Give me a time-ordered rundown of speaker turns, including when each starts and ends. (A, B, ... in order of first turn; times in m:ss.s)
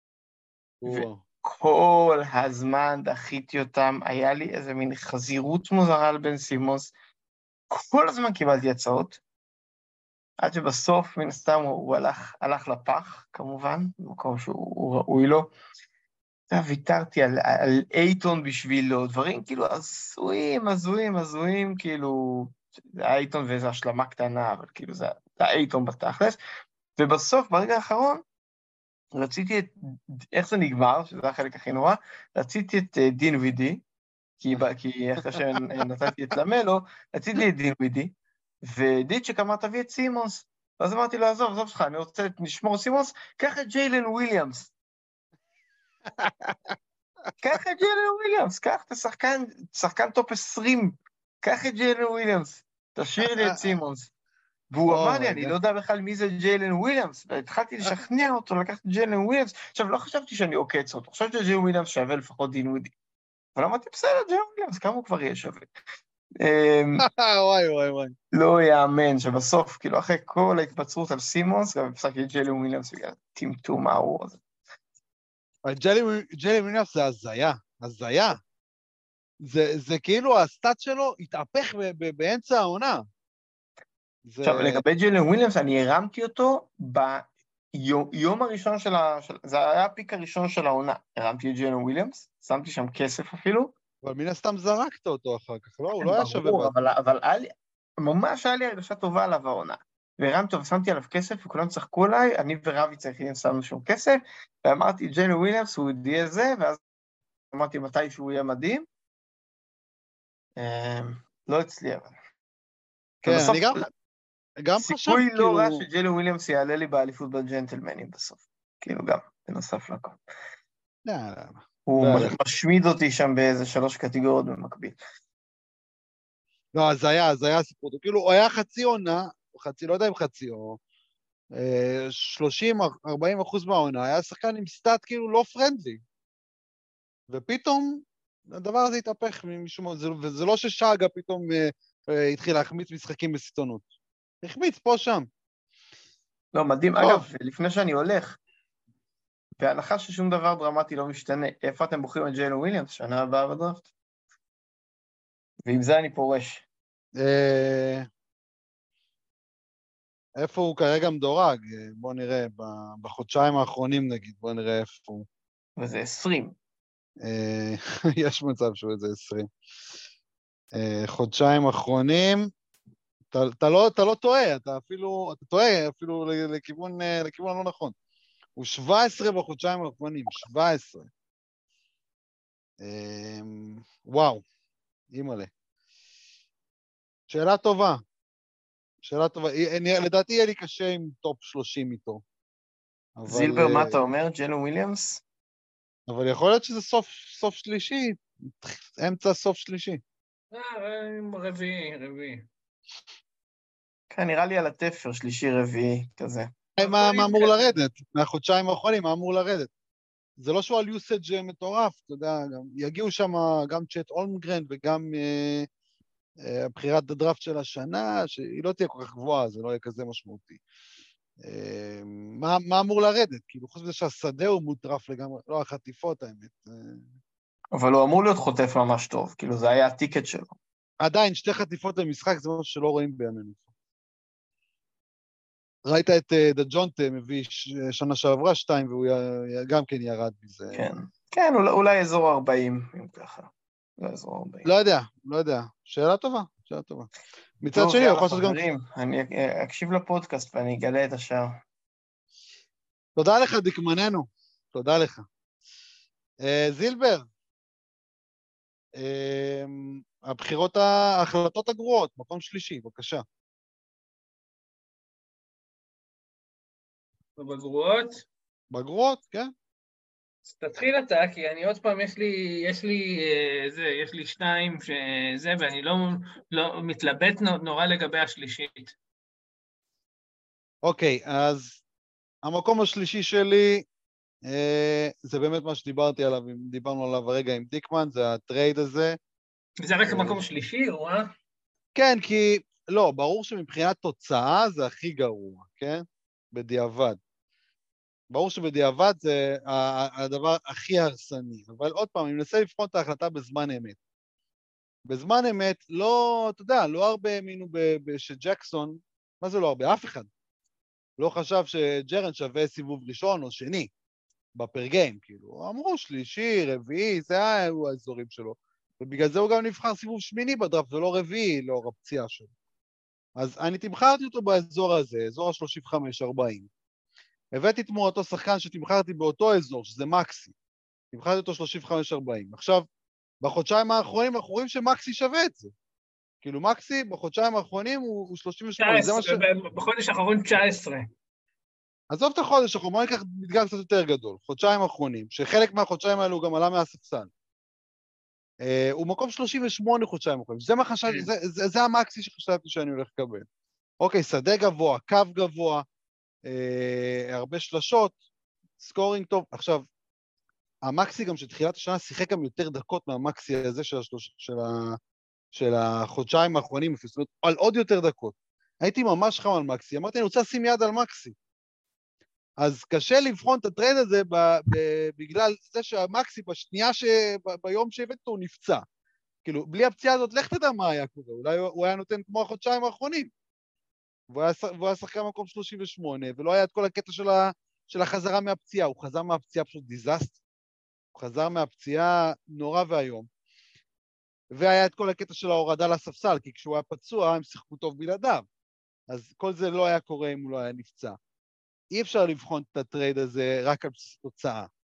0:00.8-0:01.2 A
0:00.9-0:06.9 B
0:07.7-0:09.2 B
0:10.4-0:15.5 B
0:16.5-0:26.4 B
0:27.0-0:28.2 B
0:29.1-0:33.8 B
0:34.4-0:44.7 B
0:35.2-0:35.6 A
0:47.4-0:54.1 B
0:53.2-0:53.8 A
0:54.7-1:02.9 B
0:54.9-0:55.6 A
1:03.6-1:05.7 B
1:06.4-1:07.0 B
1:07.0-1:08.2 A
1:08.3-1:14.4 B
1:15.7-1:18.4 A
1:19.4-1:23.1 A
1:24.2-1:24.8 A
1:24.4-1:33.7 B
1:34.0-1:36.7 A
1:36.0-1:46.8 B
1:47.5-1:48.9 B
1:50.6-1:52.2 B
1:53.2-1:53.9 B
1:53.2-1:53.9 A
1:54.6-1:55.8 A
1:54.8-2:00.2 B
2:01.1-2:02.4 A
2:01.9-2:05.0 B
2:06.8-2:10.8 A
2:11.5-2:16.0 A
2:17.3-2:23.9 A
2:24.4-2:25.3 A
2:26.5-2:28.4 B
2:27.0-2:27.3 A
2:29.6-2:33.9 B
2:35.6-2:36.6 B
2:37.2-2:38.1 A
2:40.4-2:45.3 A
2:45.8-2:46.6 B
2:47.2-2:49.5 A
2:50.7-2:52.5 A
2:53.3-2:58.0 A
2:58.6-3:01.1 A
3:02.8-3:04.4 A
3:05.1-3:05.5 A
3:07.3-3:08.0 A
3:09.0-3:12.2 A
3:13.2-3:14.1 A
3:13.3-3:15.2 B
3:16.1-3:20.0 A
3:20.5-3:22.5 C
3:24.1-3:26.5 B
3:26.8-3:29.7 A
3:26.8-3:27.8 C
3:30.4-3:35.7 A
3:36.4-3:40.6 A
3:41.4-3:47.1 A
3:47.7-3:50.6 B
3:51.0-3:53.6 A
3:55.9-4:00.9 A
4:00.7-4:04.7 B
4:04.6-4:08.6 A
4:07.8-4:11.6 B
4:13.2-4:15.3 A
4:16.4-4:17.3 A
4:19.0-4:23.2 A
4:27.4-4:28.2 C
4:28.7-4:29.5 A
4:30.5-4:39.0 C
4:40.8-4:41.8 A
4:42.4-4:43.9 A
4:44.5-4:49.2 A
4:49.8-4:51.3 C
4:50.1-4:50.4 A
4:52.0-4:57.2 A
4:58.3-5:04.0 A
5:05.1-5:10.3 A
5:11.2-5:13.9 A
5:14.6-5:22.5 A
5:23.4-5:26.7 A
5:27.5-5:30.5 A
5:31.1-5:32.9 A
5:33.4-5:35.7 A
5:36.4-5:39.4 A
5:38.8-5:41.1 C
5:42.1-5:47.3 A
5:48.6-5:53.5 A
5:54.0-5:55.8 A
5:56.5-5:58.2 A
5:58.8-5:59.9 A
6:00.8-6:05.0 A
6:05.5-6:11.4 A
6:12.6-6:18.8 A
6:19.4-6:23.3 A
6:24.3-6:30.4 A
6:31.2-6:33.3 A
6:34.5-6:38.5 A
6:39.1-6:41.2 A
6:41.9-6:44.7 A